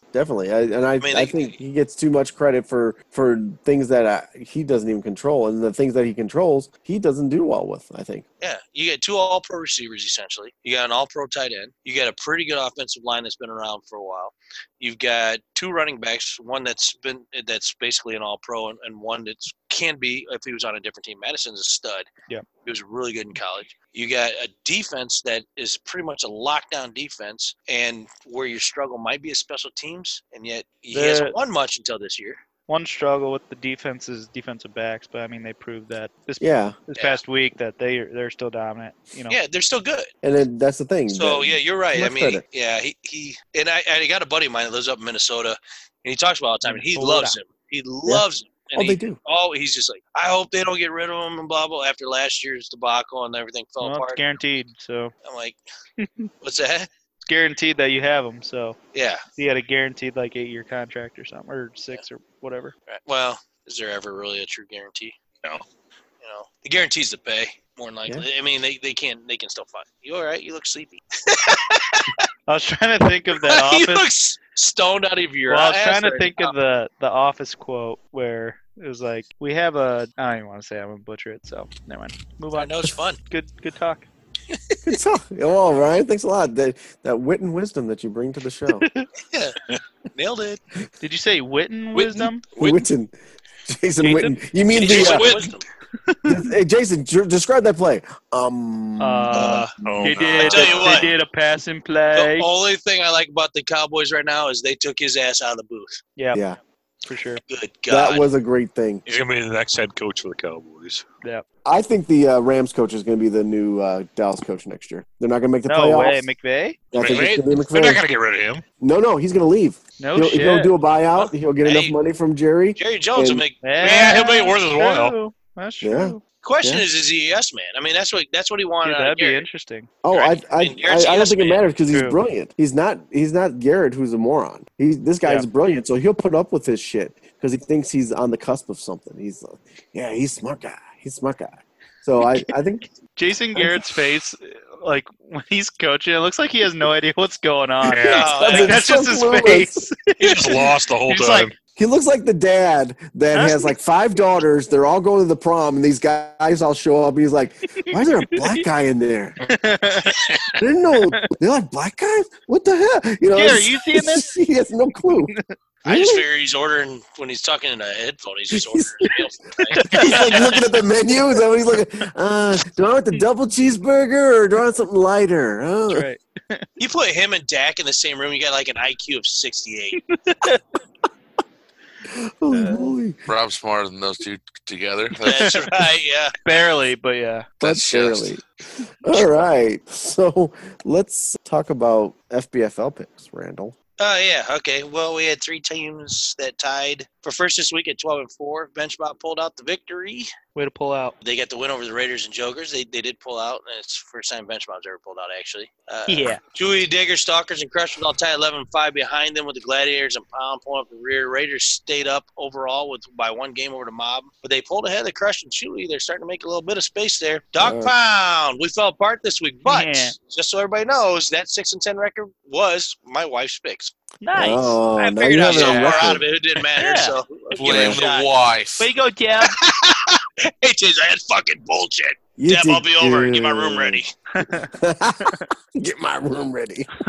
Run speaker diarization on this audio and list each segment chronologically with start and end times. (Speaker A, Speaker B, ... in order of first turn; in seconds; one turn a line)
Speaker A: 0.1-8.2
Speaker B: 1.0-1.6
Speaker B: 8.4-22.1
Speaker B: 22.6-32.4
Speaker C: 30.9-31.4
Speaker C: 32.7-39.4
Speaker A: 36.4-36.8
Speaker B: 39.3-40.1
Speaker A: 40.2-42.4
Speaker B: 41.1-54.3
Speaker C: 46.6-47.4
Speaker A: 48.1-49.2
Speaker C: 53.8-55.1
Speaker B: 55.2-55.6
Speaker C: 56.0-56.3
Speaker B: 56.4-56.9
Speaker C: 57.2-58.8
Speaker B: 58.9-59.2
Speaker C: 59.4-62.7
Speaker B: 62.9-65.2
Speaker B: 66.2-72.2
Speaker C: 72.5-74.1
Speaker B: 73.3-76.5
Speaker C: 75.5-84.1
Speaker B: 82.5-83.2
Speaker B: 84.5-84.8
Speaker A: 84.8-88.9
Speaker C: 88.8-89.1
Speaker B: 89.3-89.6
Speaker B: 90.1-90.6
Speaker C: 91.0-92.5
Speaker A: 92.5-93.1
Speaker A: 93.7-95.3
Speaker C: 94.0-94.3
Speaker B: 94.7-95.7
Speaker C: 95.0-95.6
Speaker C: 96.1-96.4
Speaker A: 96.2-99.7
Speaker C: 99.0-102.5
Speaker D: 99.8-100.9
Speaker B: 100.4-101.1
Speaker B: 102.1-106.0
Speaker C: 106.2-106.4
Speaker A: 106.3-106.6
Speaker C: 107.1-107.4
Speaker B: 107.5-108.3
Speaker A: 107.9-109.0
Speaker D: 109.1-111.0
Speaker A: 111.7-116.3
Speaker C: 115.7-116.8
Speaker A: 116.9-118.0
Speaker D: 117.0-118.6
Speaker A: 118.8-123.4
Speaker C: 120.0-120.7
Speaker B: 121.2-122.0
Speaker B: 122.8-123.8
Speaker C: 123.6-126.2
Speaker D: 123.8-125.2
Speaker A: 125.8-126.9
Speaker B: 126.4-129.4
Speaker C: 128.8-129.9
Speaker A: 130.0-142.9
Speaker B: 130.1-131.6
Speaker C: 131.9-132.2
Speaker C: 143.2-151.5
Speaker A: 143.6-143.8
Speaker D: 147.9-148.3
Speaker B: 148.1-148.8
Speaker A: 148.2-149.8
Speaker D: 150.2-151.5
Speaker A: 151.8-159.4
Speaker C: 153.3-153.7
Speaker C: 157.8-158.6
Speaker C: 159.5-160.3
Speaker D: 160.1-160.5
Speaker A: 160.6-166.3
Speaker C: 161.0-161.3
Speaker C: 163.3-164.4
Speaker B: 165.8-170.6
Speaker A: 168.5-169.2
Speaker C: 169.8-170.6
Speaker A: 169.8-176.1
Speaker C: 175.9-176.7
Speaker B: 176.8-180.0
Speaker C: 180.1-180.6
Speaker A: 182.1-183.2
Speaker C: 182.5-182.9
Speaker E: 183.3-185.6
Speaker B: 185.2-186.3
Speaker C: 185.3-185.6
Speaker C: 186.4-187.5
Speaker E: 187.6-188.3
Speaker A: 187.6-188.4
Speaker A: 189.0-193.8
Speaker B: 194.0-200.3
Speaker C: 200.6-201.2
Speaker B: 201.2-223.9
Speaker C: 206.1-206.4
Speaker A: 217.6-217.9
Speaker C: 219.7-220.2
Speaker C: 224.2-224.8
Speaker A: 224.4-226.3
Speaker B: 224.9-228.3
Speaker C: 225.5-226.0
Speaker C: 226.8-227.2
Speaker E: 227.6-228.9
Speaker A: 227.6-228.0
Speaker C: 228.8-229.6
Speaker B: 229.4-234.1
Speaker A: 232.4-236.9
Speaker C: 234.3-234.7